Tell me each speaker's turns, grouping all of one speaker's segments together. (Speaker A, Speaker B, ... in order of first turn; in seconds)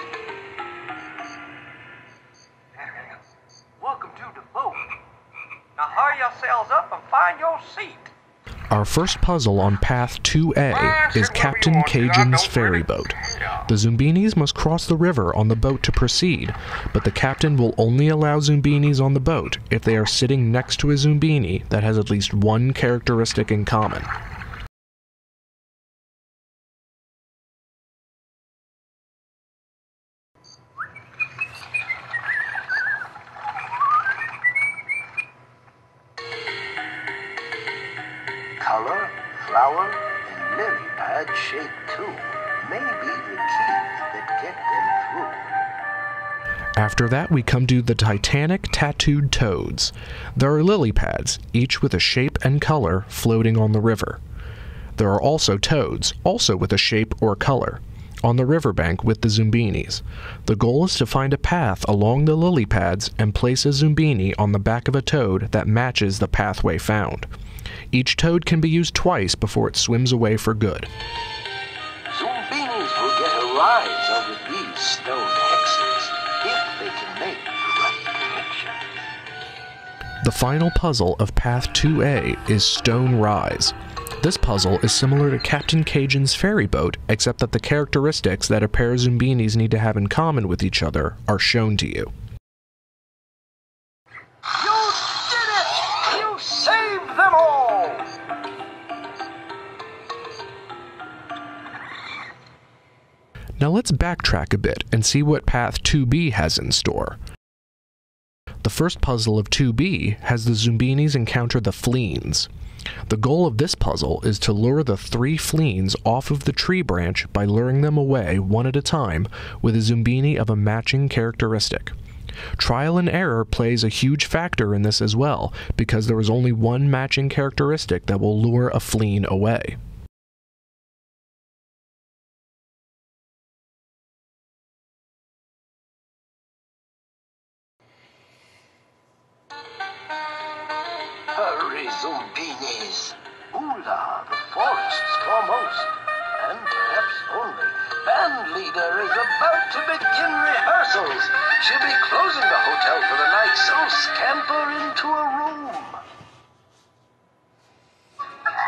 Speaker A: 3.8-4.8, 11.0-11.8, 38.6-45.4, 72.1-78.8, 94.5-98.1, 141.3-156.0
Speaker B: 5.8-8.1
Speaker C: 8.7-24.1, 46.8-54.2, 55.0-67.3, 67.9-70.9, 80.2-92.1, 103.6-107.2, 108.6-112.5, 113.1-121.9, 122.6-129.8